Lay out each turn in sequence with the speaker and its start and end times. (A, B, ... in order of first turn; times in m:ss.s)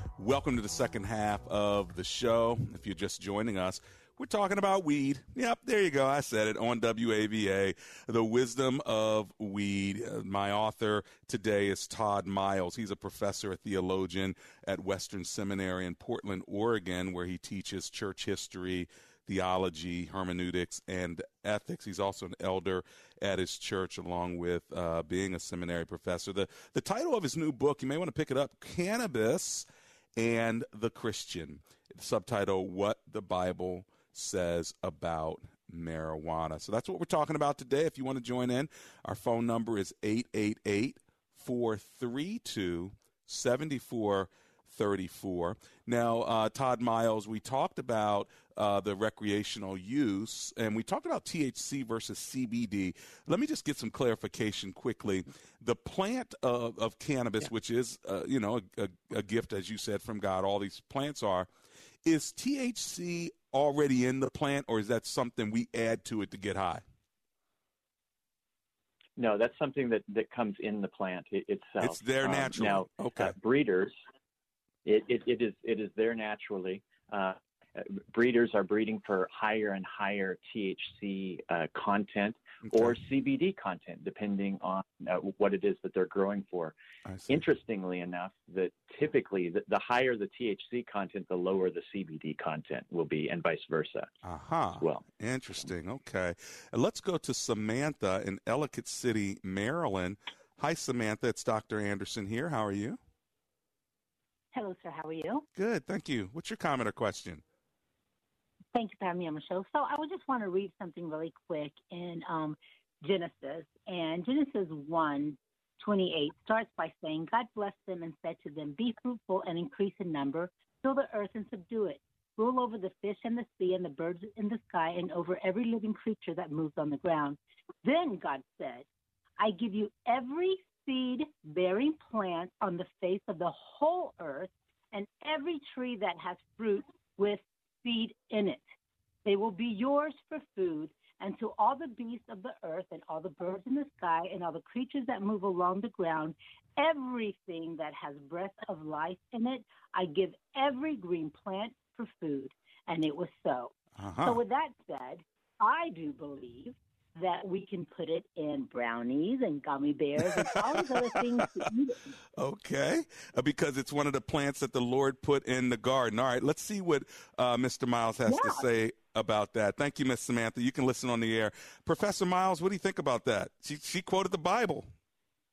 0:00.2-0:29.6 A
0:30.2-1:01.5 A
1:02.0-1:06.8 A
1:09.2-1:13.9 B
1:11.8-1:13.3 A
1:14.8-1:26.7 B
1:22.6-1:23.0 A
1:27.0-1:27.4 A
1:27.3-1:34.1 B
1:34.2-1:43.0 A
1:44.5-1:45.4 C
1:45.5-1:47.4 A
1:48.7-2:08.8 C
2:09.4-2:18.7 C
2:19.2-2:41.9 C
2:34.0-2:34.4 A
2:40.8-2:41.4 A
2:42.4-2:54.9 A
2:48.2-2:48.7 C